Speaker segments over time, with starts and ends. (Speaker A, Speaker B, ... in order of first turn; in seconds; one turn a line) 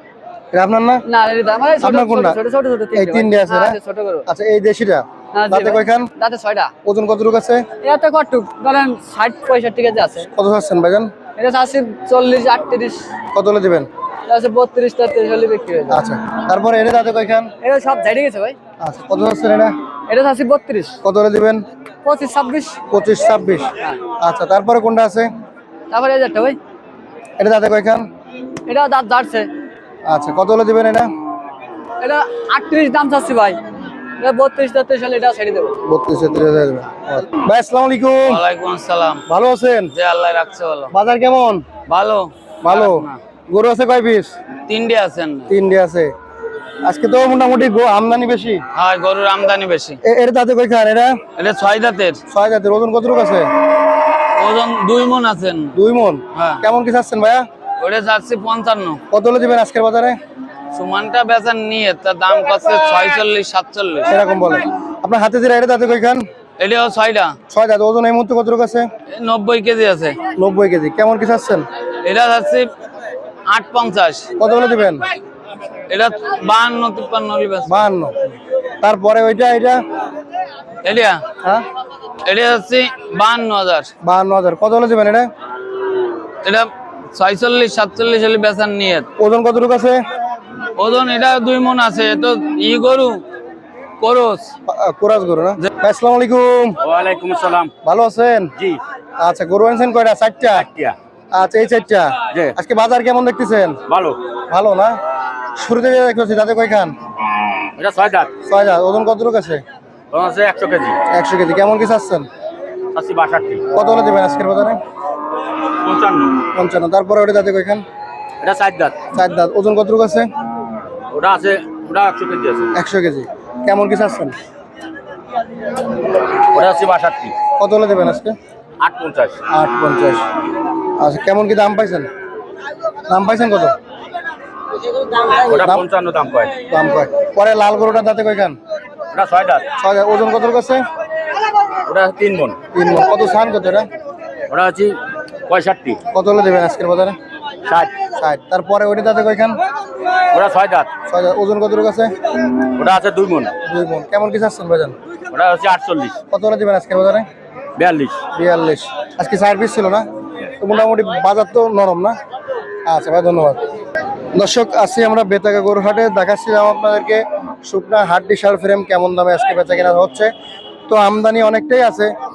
Speaker A: 0.5-1.0
Speaker B: 1.1-4.3
Speaker A: 1.8-2.4
Speaker A: 3.0-6.1
Speaker B: 5.3-6.7
Speaker A: 6.8-7.7
Speaker B: 7.8-10.3
Speaker A: 10.4-11.1
Speaker B: 11.4-13.1
Speaker A: 13.3-13.9
Speaker B: 14.3-16.0
Speaker A: 15.9-17.5
Speaker B: 17.6-18.6
Speaker A: 18.8-19.7
Speaker B: 20.1-21.0
Speaker A: 21.0-21.6
Speaker B: 22.1-22.8
Speaker A: 22.9-25.3
Speaker B: 25.9-26.6
Speaker A: 27.4-28.1
Speaker B: 28.7-29.5
Speaker A: 30.1-31.1
Speaker B: 32.0-33.6
Speaker B: 34.2-35.8
Speaker A: 35.8-38.4
Speaker C: 38.2-39.2
Speaker A: 39.3-39.9
Speaker C: 39.9-40.9
Speaker A: 40.9-41.6
Speaker C: 41.9-43.2
Speaker A: 42.6-44.3
Speaker C: 44.7-45.5
Speaker A: 45.5-46.1
Speaker A: 46.8-48.6
Speaker C: 48.7-50.0
Speaker A: 50.0-51.2
Speaker C: 51.4-52.2
Speaker A: 52.3-53.5
Speaker C: 54.4-55.7
Speaker A: 55.8-57.5
Speaker C: 56.4-56.6
Speaker C: 57.8-59.0
Speaker A: 59.1-60.2
Speaker C: 60.7-64.1
Speaker A: 64.1-66.2
Speaker C: 66.6-67.3
Speaker A: 67.5-68.9
Speaker C: 69.2-70.2
Speaker A: 70.4-71.7
Speaker C: 72.0-72.7
Speaker C: 73.5-74.3
Speaker A: 74.4-75.0
Speaker C: 75.9-77.8
Speaker A: 77.7-78.3
Speaker A: 78.8-79.8
Speaker C: 80.8-81.2
Speaker C: 82.2-83.9
Speaker A: 84.0-85.3
Speaker C: 86.4-89.1
Speaker A: 89.2-90.0
Speaker C: 90.8-93.2
Speaker C: 94.0-94.5
Speaker A: 94.7-96.8
Speaker D: 96.8-97.7
Speaker A: 97.8-98.5
Speaker A: 99.2-100.7
Speaker D: 100.5-101.0
Speaker A: 101.3-103.8
Speaker D: 103.9-104.3
Speaker A: 104.5-105.0
Speaker A: 105.6-106.9
Speaker D: 107.8-108.3
Speaker A: 108.5-109.6
Speaker D: 110.1-111.0
Speaker A: 111.1-112.3
Speaker D: 112.9-113.6
Speaker A: 113.7-114.8
Speaker D: 115.8-116.4
Speaker A: 116.5-117.8
Speaker D: 118.4-119.0
Speaker A: 119.1-120.3
Speaker D: 121.1-122.7
Speaker A: 122.8-124.4
Speaker D: 126.5-127.3
Speaker A: 127.6-128.3
Speaker D: 128.8-129.4
Speaker A: 129.5-130.3
Speaker A: 131.0-132.1
Speaker A: 133.1-133.7
Speaker D: 135.2-136.5
Speaker A: 136.7-138.6
Speaker D: 139.1-139.7
Speaker A: 139.8-140.8
Speaker D: 141.9-142.6
Speaker A: 142.7-143.9
Speaker D: 144.5-145.0
Speaker D: 145.5-146.0
Speaker A: 146.1-147.2
Speaker D: 147.7-147.9
Speaker A: 148.1-149.6
Speaker D: 150.3-150.9
Speaker A: 151.1-152.1
Speaker D: 152.7-153.6
Speaker A: 153.7-154.9
Speaker D: 155.3-156.1
Speaker A: 156.3-157.3
Speaker D: 157.8-158.2
Speaker A: 158.3-160.0
Speaker A: 160.6-162.2
Speaker A: 162.9-163.6
Speaker A: 164.3-170.3
Speaker A: 170.9-172.1